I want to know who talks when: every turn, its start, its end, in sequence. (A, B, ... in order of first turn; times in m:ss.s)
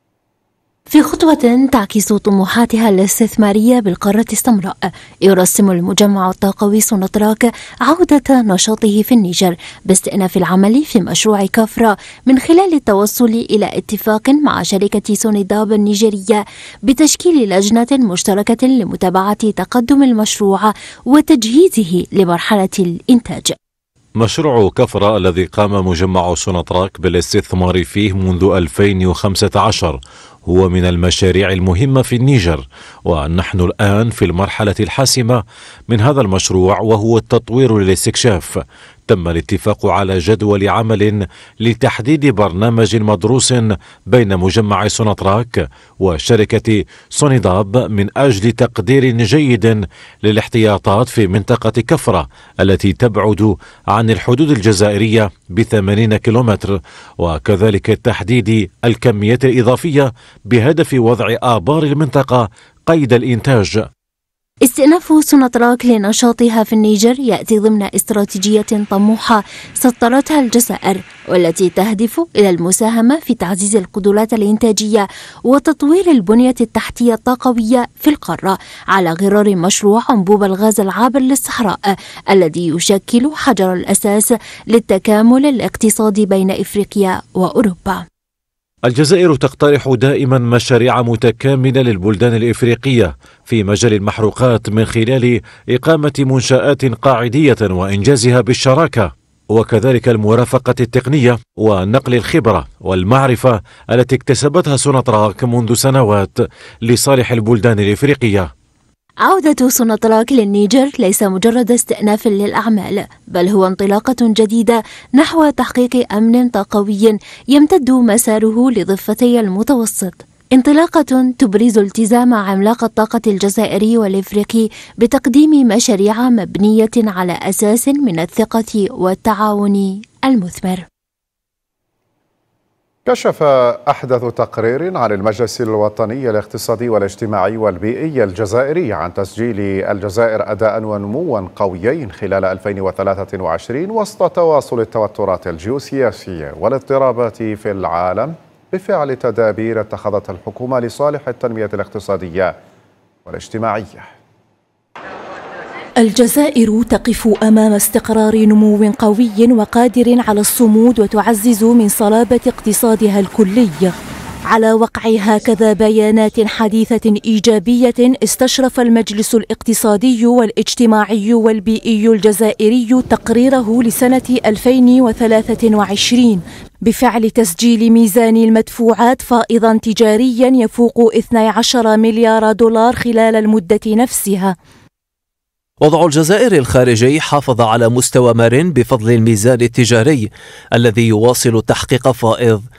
0:00.9-0:23.6 A
0:24.2-1:03.8 B
1:04.6-1:21.8 A
1:22.3-1:28.0 A
1:28.9-1:48.5 B
1:49.3-2:10.8 A
2:13.0-2:32.6 C
2:33.2-2:34.1 C
2:36.0-2:43.9 D
2:44.5-3:04.5 D
3:05.8-3:12.6 E